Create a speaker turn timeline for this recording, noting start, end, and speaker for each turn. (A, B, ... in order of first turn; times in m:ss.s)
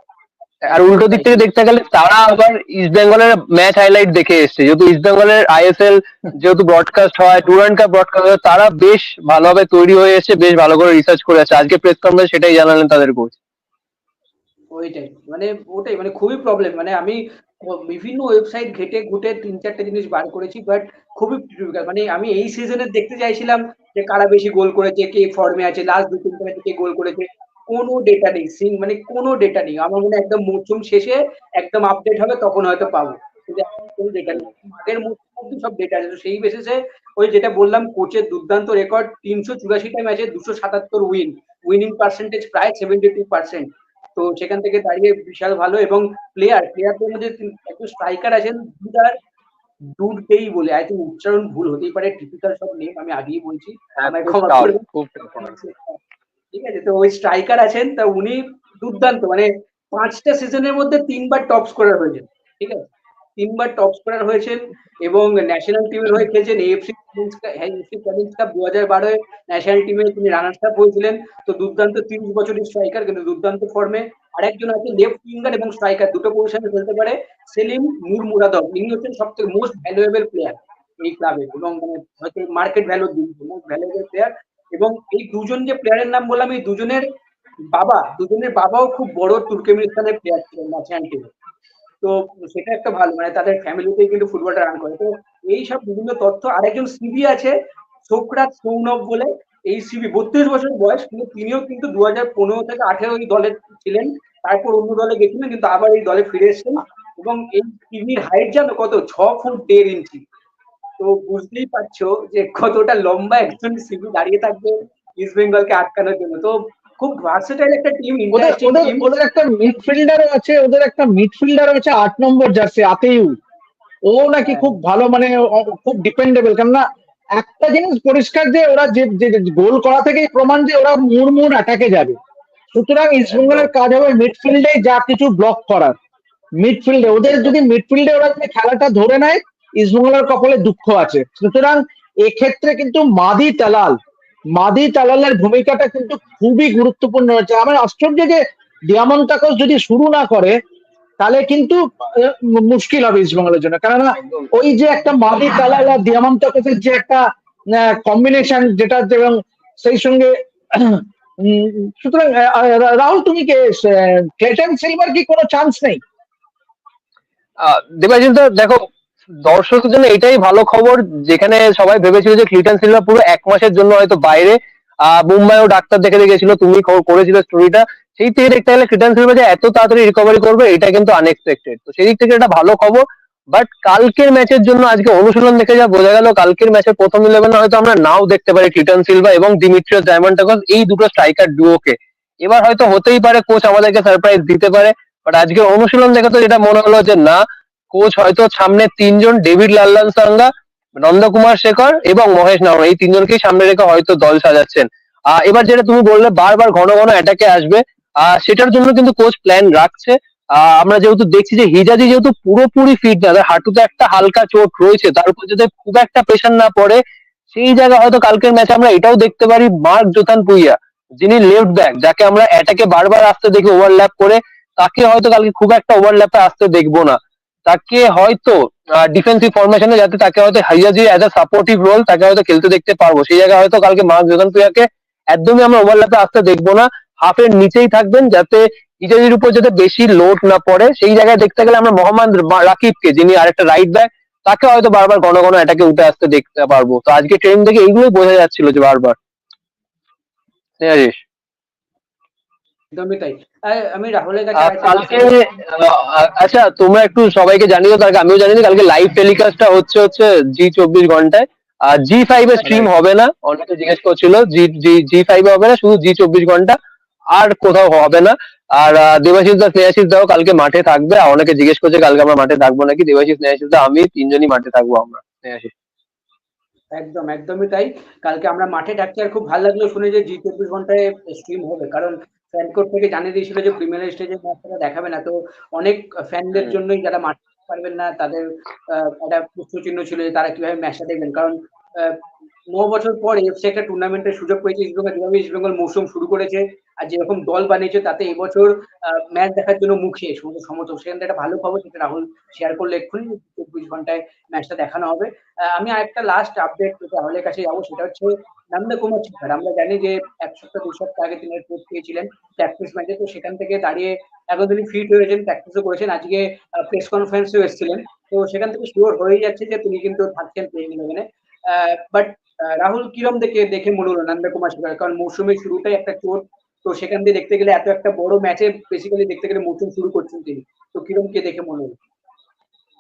0:00.7-0:13.4 A
0:14.7-0:49.2 B
0:50.0-0:56.0 B
0:54.0-0:55.5 A
0:56.5-1:02.9 B
1:03.4-1:27.1 B
1:27.7-1:31.3 B
1:32.0-1:37.5 B
1:38.1-1:50.2 B
1:51.0-1:59.0 B
1:58.3-2:03.4 C
2:04.1-2:06.8 C
2:04.4-2:04.8 B
2:07.4-2:12.2 C
2:12.7-2:16.0 C
2:13.3-2:13.7 A
2:16.6-2:24.0 C
2:17.2-2:17.5 A
2:24.6-2:30.6 C
2:31.2-2:46.0 C
2:47.6-2:48.8 A
2:49.4-3:17.4 A
3:17.9-3:37.0 A
3:37.5-4:09.2 A
4:10.8-4:11.2 A
4:12.9-4:15.3 B
4:14.6-4:26.8 A
4:27.3-4:35.7 A
4:36.9-4:52.2 B
4:52.7-5:32.0 B